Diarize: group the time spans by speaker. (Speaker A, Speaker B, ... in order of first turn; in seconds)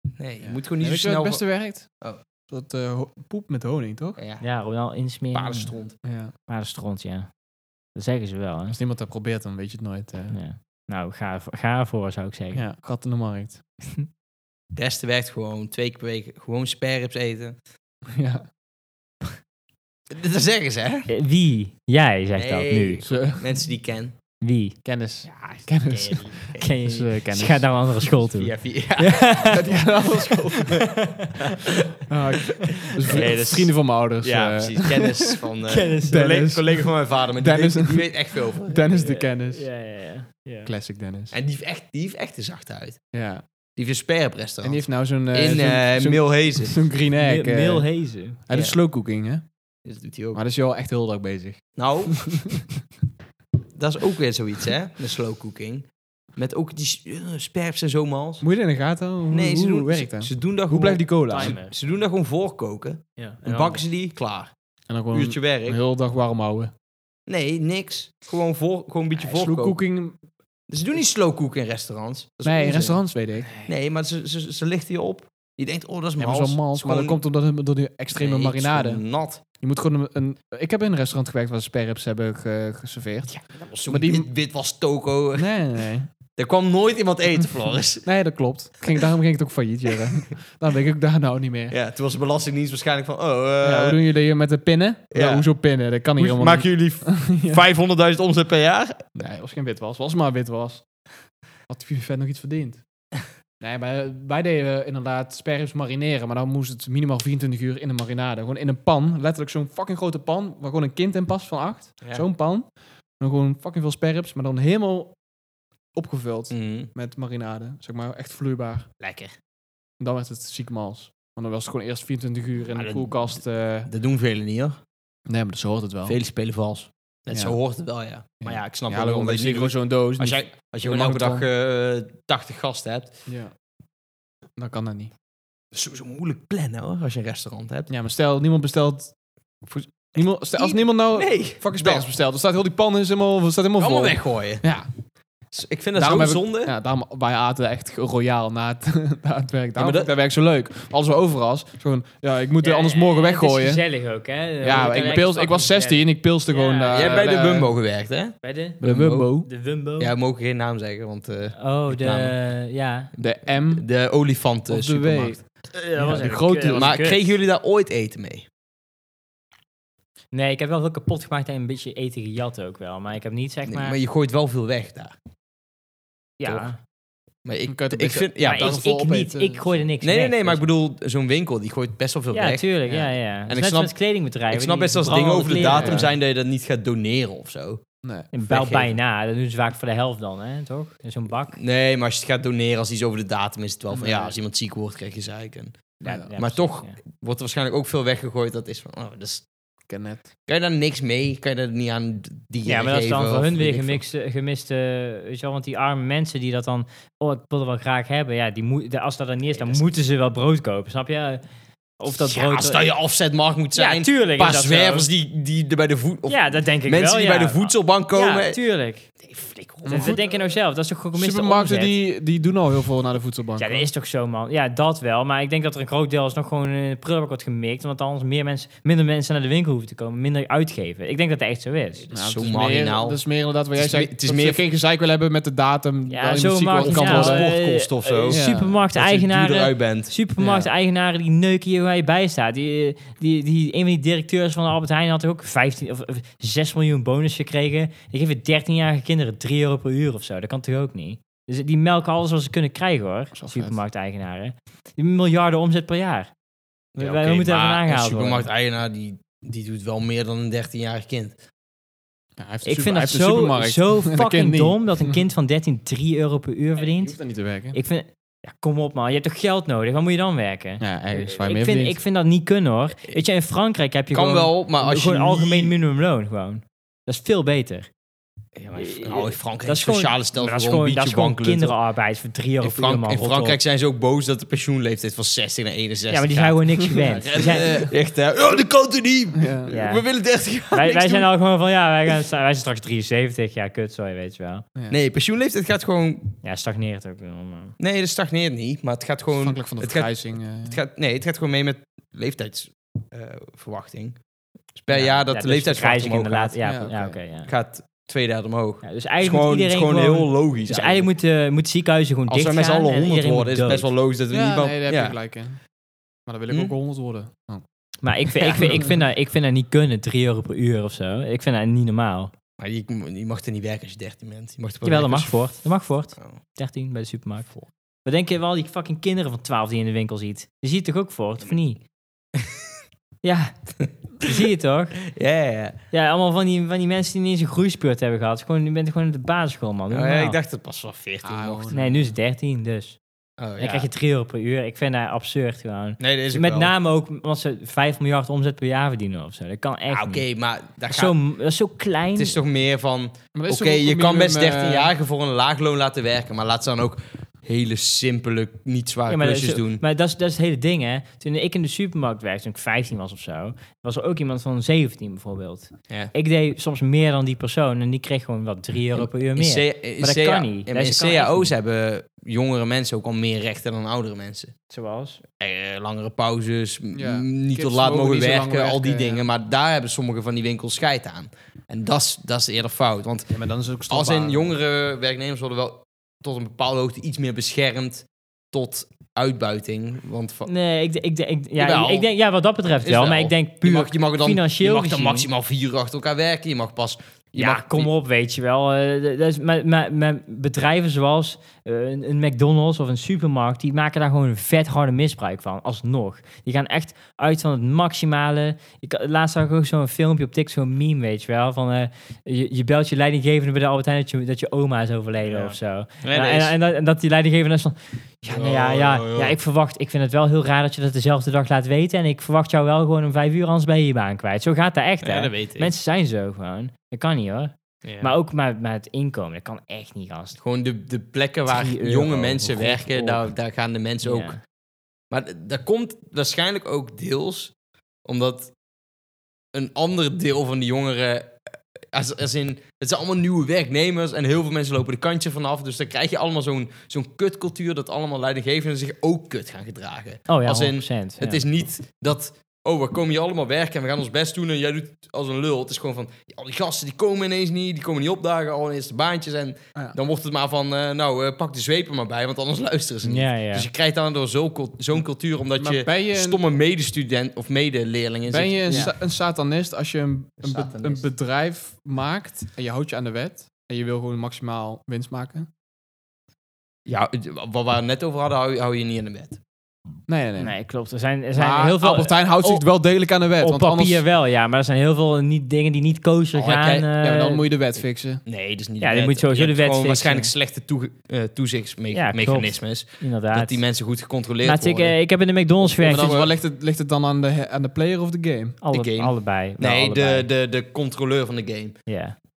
Speaker A: 0.2-1.4, 4.2-4.4, 5.3-6.0, 14.8-17.6, 20.1-21.1, 22.4-24.1, 25.3-26.7, 28.3-30.9, 31.4-31.9, 32.6-39.1, 41.3-43.0, 43.8-46.8, 49.9-50.4, 51.8-52.2, 53.8-58.5, 59.3-64.5, 65.1-65.8, 67.3-69.8, 70.7-73.0, 73.7-77.2, 78.2-79.4, 83.3-85.5, 86.4-88.1, 91.7-94.0, 95.1-95.5, 96.2-99.0, 116.5-116.9, 119.0-119.3, 122.8-124.8, 126.0-133.2, 135.7-137.9, 140.1-142.1, 143.8-144.6, 145.5-146.7, 149.8-150.1, 156.9-159.4, 160.0-162.3, 163.5-165.4, 166.1-168.5, 173.7-175.2, 176.4-176.7, 177.4-178.8, 180.0-183.9, 184.5-187.8, 188.5-189.0, 191.5-195.8, 196.3-199.5, 200.5-204.0, 209.5-209.9, 212.1-218.6, 219.2-220.2, 232.0-233.2, 233.8-234.6, 236.8-240.1, 257.0-261.4, 274.1-275.8, 278.6-281.8, 282.6-291.3, 294.9-296.3, 297.8-300.1, 300.7-304.2, 304.8-306.6, 307.5-311.1, 312.3-315.2, 316.5-316.7, 322.6-325.4, 333.8-334.3, 335.1-335.8, 339.9-341.8, 343.4-343.9, 346.0-346.7, 349.9-351.1, 352.2-359.8, 368.9-374.5, 375.4-383.3, 383.9-390.5, 391.6-392.1, 392.8-397.9, 415.2-416.5, 418.3-419.4, 425.0-425.7, 427.8-428.2, 430.4-434.4, 435.1-437.5, 438.1-438.5, 439.5-441.4, 441.9-468.9, 470.4-471.1, 476.9-479.4, 486.3-486.9, 488.3-495.0, 495.6-496.3, 498.7-501.8
Speaker B: 0.4-1.9, 2.5-4.2, 6.0-6.3, 8.7-10.4, 12.5-13.6, 18.1-18.5, 23.1-23.5, 24.8-27.7, 29.5-30.8, 32.1-35.4, 36.1-36.9, 37.4-38.1, 38.6-39.7, 40.7-41.3, 43.1-43.4, 44.6-47.9, 48.5-49.4, 50.3-52.8, 58.4-61.6, 64.9-66.7, 69.2-70.2, 72.5-73.5, 76.2-79.0, 79.6-83.3, 83.9-84.3, 85.4-86.1, 88.0-91.8, 93.6-97.6, 99.2-100.8, 101.7-102.8, 103.6-112.7, 113.2-115.2, 116.0-118.9, 120.0-123.9, 125.3-126.2, 127.3-127.6, 128.4-131.5, 133.3-133.5, 134.6-135.1, 137.9-139.1, 139.7-144.9, 146.0-153.8, 154.6-157.7, 158.8-159.5, 163.2-163.9, 164.7-165.4, 166.0-166.9, 177.7-179.8, 185.6-186.1, 188.0-188.3, 193.9-194.4, 196.1-196.3, 199.9-200.3, 219.8-220.4, 221.2-223.9, 232.1-237.5, 238.3-238.8, 240.4-240.7, 253.4-253.8, 262.4-265.2, 267.0-267.8, 270.8-272.0, 287.0-287.9, 289.4-289.7, 299.4-300.8, 306.6-307.2, 314.3-315.6, 316.3-317.6, 318.5-318.9, 341.2-342.1, 353.3-354.9, 376.9-379.3, 383.3-384.5, 465.6-466.4, 468.3-475.5, 480.1-480.6, 481.4-484.0, 487.0-488.2, 495.8-498.6
Speaker C: 4.4-5.7, 6.5-7.3, 8.0-8.8, 10.3-12.6, 21.1-23.1, 24.4-24.8, 26.6-29.7, 30.6-31.6, 32.9-33.2, 35.7-36.5, 39.0-40.7, 47.2-48.4, 61.3-61.7, 63.2-63.8, 152.6-157.3, 158.4-158.8, 159.4-160.1, 161.6-163.1, 165.8-167.3, 170.3-174.0, 176.4-176.8, 178.4-180.6, 182.3-186.1, 188.3-191.6, 196.0-196.9, 202.7-211.4, 212.0-212.8, 213.8-215.1, 216.3-219.1, 219.9-222.0, 223.6-232.1, 236.1-256.3, 257.0-258.5, 262.6-267.2, 267.7-277.9, 278.8-283.6, 286.1-287.8, 289.7-290.1, 290.7-294.6, 296.4-297.8, 304.9-307.5, 308.8-313.9, 318.0-322.3, 324.8-327.5, 328.1-331.8, 333.2-333.6, 334.2-335.0, 335.9-340.4, 341.7-343.0, 343.6-350.2, 350.9-352.4, 359.1-371.5, 374.7-375.2, 390.5-395.3, 397.4-430.4, 431.5-433.3, 434.0-434.4, 450.3-451.4, 463.0-463.7, 480.4-482.6, 483.4-487.4, 488.8-490.3, 491.9-493.6, 494.4-496.2, 498.6-500.3, 501.9-502.2